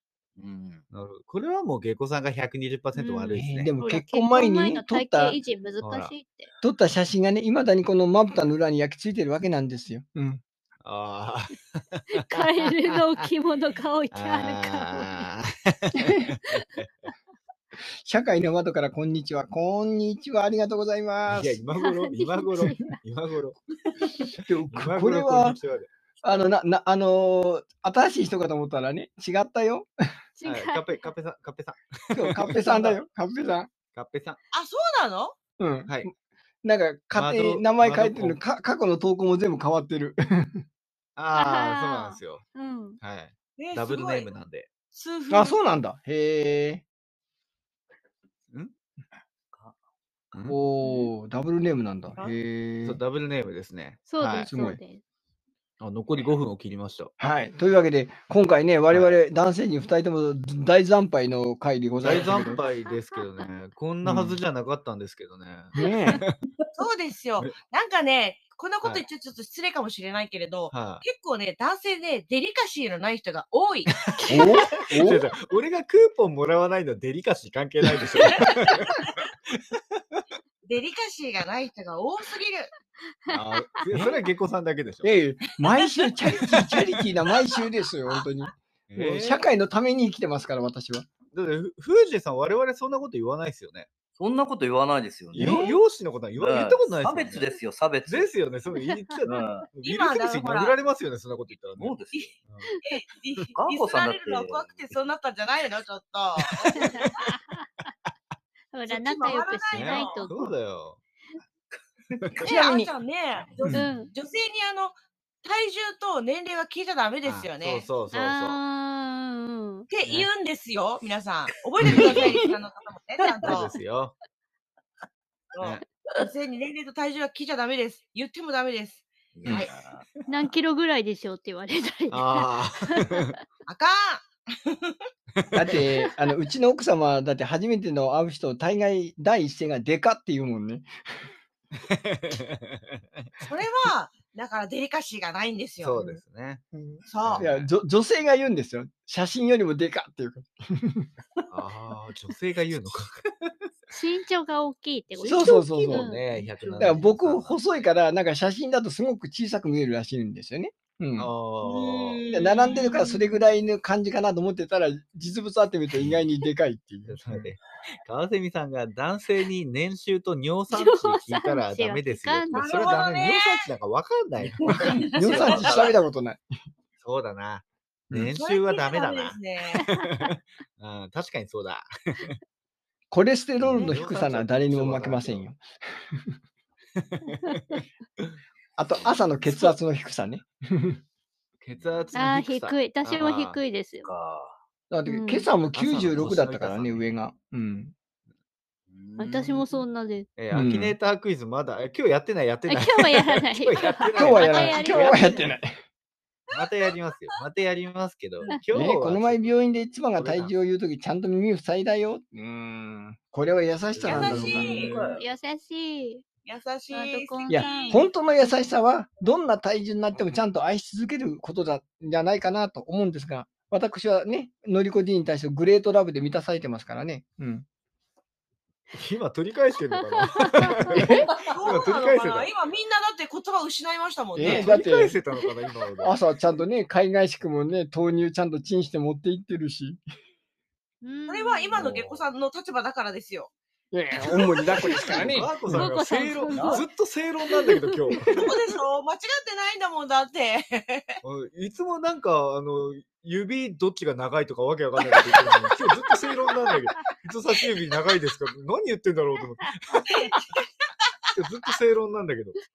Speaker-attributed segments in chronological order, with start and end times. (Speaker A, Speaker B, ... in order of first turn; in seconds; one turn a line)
Speaker A: 0.4-0.8
Speaker B: 0.9-3.7
Speaker C: 2.9-6.5
Speaker D: 3.3-5.4
Speaker B: 5.8-6.1
Speaker D: 6.6-10.4
Speaker B: 10.8-13.2
Speaker C: 12.1-15.3
Speaker B: 14.1-16.9
Speaker D: 15.9-16.2
Speaker D: 18.0-21.6
Speaker B: 21.3-23.6
Speaker C: 21.8-23.0
Speaker B: 24.1-25.9
Speaker D: 24.4-25.6
Speaker D: 26.2-29.9
Speaker C: 30.4-31.1
Speaker B: 30.4-33.0
Speaker D: 32.1-33.7
Speaker B: 33.9-34.4
Speaker E: 34.5-35.4
Speaker D: 35.6-36.1
Speaker D: 36.6-40.6
Speaker B: 37.1-38.4
Speaker B: 41.1-42.5
Speaker C: 41.4-43.0
Speaker B: 43.0-44.7
Speaker E: 43.6-44.3
Speaker E: 44.9-45.6
Speaker D: 45.3-46.8
Speaker B: 50.3-50.6
Speaker D: 50.5-53.0
Speaker C: 50.8-51.1
Speaker B: 52.8-54.5
Speaker C: 54.1-55.0
Speaker D: 54.5-54.8
Speaker B: 55.8-57.1
Speaker D: 57.2-62.6
Speaker B: 62.0-66.4
Speaker C: 62.9-63.2
Speaker D: 64.0-64.4
Speaker D: 65.8-66.2
Speaker E: 66.8-73.9
Speaker B: 70.7-71.0
Speaker B: 74.0-79.6
Speaker D: 74.3-75.3
Speaker E: 78.2-78.8
Speaker E: 80.6-82.7
Speaker B: 83.3-85.1
Speaker C: 83.3-83.8
Speaker D: 83.9-84.2
Speaker D: 85.0-91.1
Speaker B: 88.9-89.5
Speaker B: 91.3-93.9
Speaker A: 94.2-95.7
Speaker D: 95.3-95.8
Speaker B: 95.3-97.5
Speaker A: 96.4-98.3
Speaker B: 98.1-101.9
Speaker A: 99.2-99.7
Speaker E: 99.8-100.7
Speaker A: 101.8-102.3
Speaker E: 102.8-107.0
Speaker A: 103.5-104.8
Speaker C: 106.7-107.6
Speaker C: 108.7-110.5
Speaker E: 108.9-110.3
Speaker B: 109.7-111.0
Speaker B: 112.2-112.4
Speaker D: 112.4-112.9
Speaker E: 112.4-117.8
Speaker C: 113.7-114.1
Speaker B: 117.2-118.6
Speaker C: 118.1-119.9
Speaker E: 119.9-123.7
Speaker B: 121.8-122.2
Speaker D: 121.9-122.3
Speaker B: 123.4-124.1
Speaker E: 125.5-129.7
Speaker A: 129.3-130.1
Speaker C: 130.3-133.3
Speaker B: 132.1-133.3
Speaker E: 133.7-135.0
Speaker B: 135.4-135.8
Speaker D: 135.5-140.9
Speaker B: 141.9-143.3
Speaker E: 143.4-146.0
Speaker B: 145.8-147.7
Speaker D: 146.7-151.1
Speaker E: 147.1-147.5
Speaker B: 151.5-153.5
Speaker C: 153.9-157.0
Speaker B: 155.2-157.8
Speaker D: 155.2-156.1
Speaker D: 156.7-161.3
Speaker B: 161.2-162.4
Speaker C: 161.7-163.3
Speaker E: 162.1-162.5
Speaker D: 162.3-167.5
Speaker B: 167.1-175.9
Speaker C: 170.7-172.5
Speaker E: 172.5-173.6
Speaker E: 174.6-176.0
Speaker D: 174.7-176.5
Speaker B: 177.0-182.3
Speaker E: 178.3-179.8
Speaker C: 179.8-180.1
Speaker D: 183.1-185.6
Speaker B: 183.6-185.4
Speaker B: 187.0-188.3
Speaker C: 187.4-187.8
Speaker D: 188.8-191.0
Speaker B: 191.6-193.6
Speaker C: 192.1-194.1
Speaker A: 194.0-194.5
Speaker D: 194.9-197.9
Speaker C: 195.1-195.5
Speaker B: 195.7-197.1
Speaker A: 198.9-199.7
Speaker C: 199.2-200.3
Speaker B: 200.4-205.5
Speaker D: 200.5-200.9
Speaker C: 202.7-205.4
Speaker D: 204.2-205.8
Speaker B: 206.5-210.5
Speaker E: 206.5-206.9
Speaker D: 208.7-214.8
Speaker B: 213.9-215.2
Speaker E: 214.0-215.2
Speaker C: 214.1-214.5
Speaker A: 214.7-215.2
Speaker C: 215.2-216.2
Speaker E: 216.4-218.0
Speaker C: 216.9-218.0
Speaker D: 217.5-227.6
Speaker B: 228.9-232.5
Speaker C: 230.2-231.3
Speaker E: 231.3-234.7
Speaker D: 234.3-235.2
Speaker B: 234.4-236.2
Speaker D: 236.0-240.0
Speaker C: 241.0-241.8
Speaker E: 241.3-243.5
Speaker B: 241.8-242.2
Speaker D: 243.9-245.9
Speaker E: 244.6-245.2
Speaker B: 244.8-248.5
Speaker C: 245.7-246.8
Speaker D: 246.5-246.8
Speaker C: 247.5-248.1
Speaker E: 248.3-251.2
Speaker B: 251.2-260.3
Speaker E: 260.1-260.9
Speaker B: 261.3-262.6